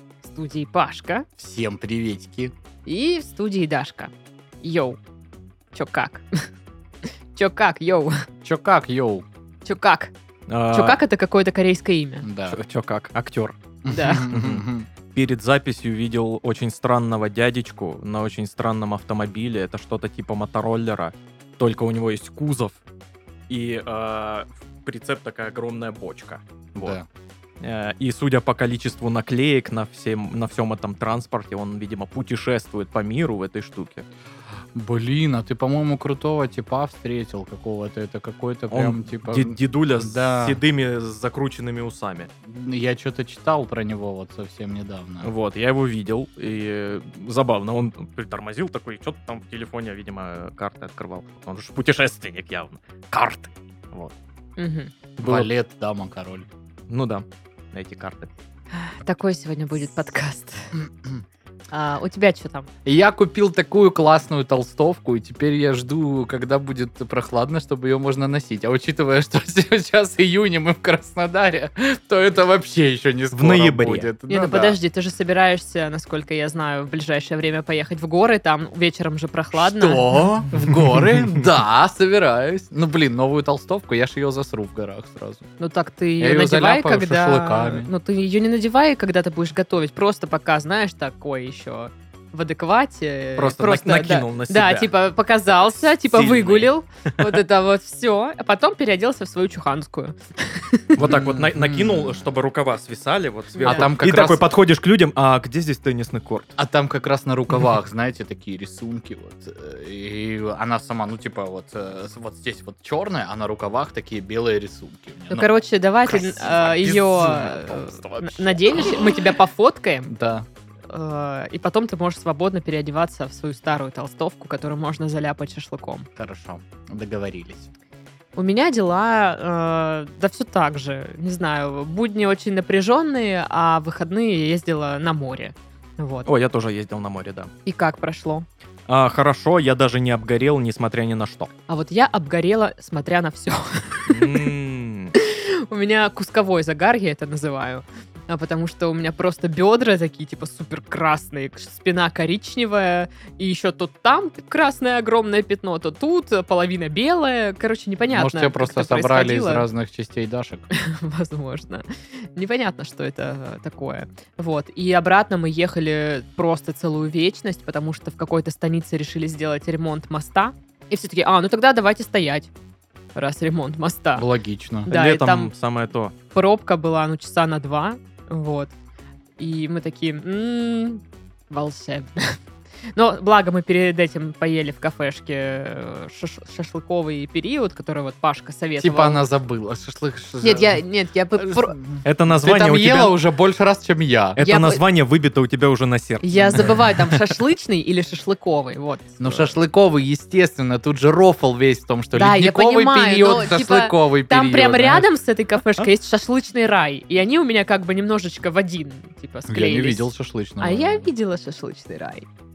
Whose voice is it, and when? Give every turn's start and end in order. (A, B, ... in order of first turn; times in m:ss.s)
0:00.2-0:01.3 A
0:01.4-0:02.5 B
0:02.9-0:05.0 A
0:05.7-0:06.5 A
0:07.4-0:08.3 A
0:08.4-0:09.2 B
0:09.6-0:10.1 A
0:10.5-0:11.0 C
0:10.7-0:12.3 A
0:12.2-0:12.6 B
0:12.5-0:13.6 C
0:13.8-0:14.9 B
0:13.9-0:14.3 A
0:14.3-0:22.8 C
0:23.5-0:27.0 C
0:27.6-0:34.1 C
0:34.8-0:40.6 B
0:38.7-0:42.3 C
0:42.5-0:45.3 B
0:45.2-0:54.1 C
0:54.6-0:54.9 A
0:55.2-0:55.5 C
0:55.2-0:56.5 B
0:56.9-0:58.3 C
0:58.7-1:00.7 A
1:00.8-1:01.2 B
1:01.7-1:02.7 A
1:02.8-1:14.8 B
1:13.3-1:14.1 C
1:14.3-1:20.2 A
1:19.5-1:25.5 B
1:25.6-1:40.9 A
1:26.2-1:27.9 B
1:33.4-1:34.9 C
1:35.5-1:37.4 C
1:41.0-1:46.6 C
1:41.0-1:42.3 B
1:43.5-1:43.9 A
1:43.6-1:44.5 B
1:46.6-1:55.5 B
1:55.3-2:00.1 A
1:56.1-1:59.1 B
1:56.9-1:57.4 C
2:00.1-2:00.5 B
2:00.9-2:06.1 A
2:06.2-2:07.7 B
2:08.4-2:16.3 A
2:16.3-2:17.5 C
2:17.6-2:18.5 A
2:18.9-2:21.5 C
2:21.7-2:24.5 A
2:24.1-2:25.2 C
2:25.2-2:39.7 A
2:38.1-2:40.7 B
2:40.7-2:52.5 A
2:53.2-2:54.3 A
2:54.2-2:54.9 B
2:54.9-2:55.5 A
2:54.9-2:56.1 C
2:56.3-2:58.7 A
2:59.4-3:02.4 A
3:02.9-3:09.3 A
3:08.8-3:10.8 B
3:10.4-3:11.8 A
3:11.4-3:14.4 B
3:12.0-3:13.2 C
3:14.4-3:17.2 C
3:14.4-3:14.8 A
3:16.2-3:19.4 A
3:19.2-3:25.1 B
3:22.1-3:32.3 A
3:29.5-3:31.1 B